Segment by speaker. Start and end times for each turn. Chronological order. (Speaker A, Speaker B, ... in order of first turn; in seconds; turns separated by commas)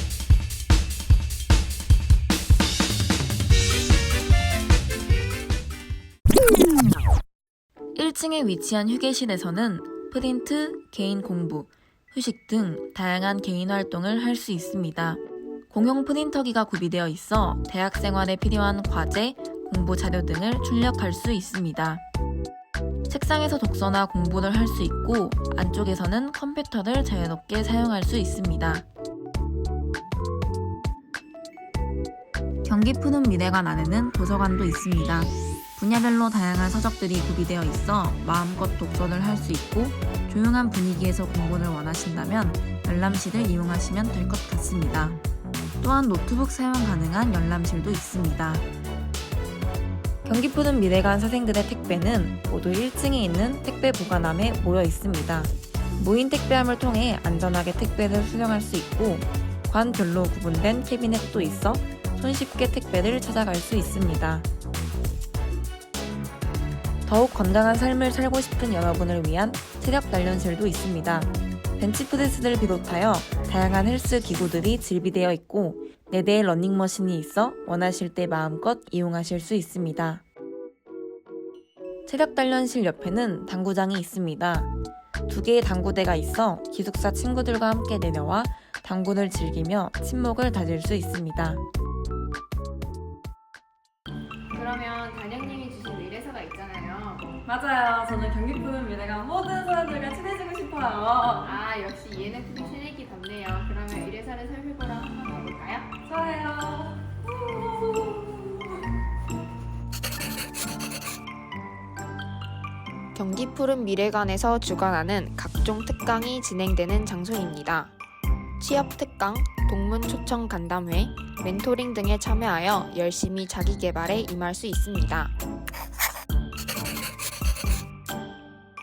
Speaker A: 8.0-22.0, Speaker A: 23.1-28.9, Speaker A: 32.6-45.2, Speaker A: 45.8-48.7, Speaker A: 50.2-64.5, Speaker A: 67.1-80.2, Speaker A: 82.1-84.7, Speaker A: 85.3-91.6, Speaker B: 94.5-97.3, Speaker C: 97.4-101.5, Speaker B: 101.4-105.9, Speaker C: 106.0-108.6, Speaker D: 113.2-117.9, Speaker D: 118.6-125.3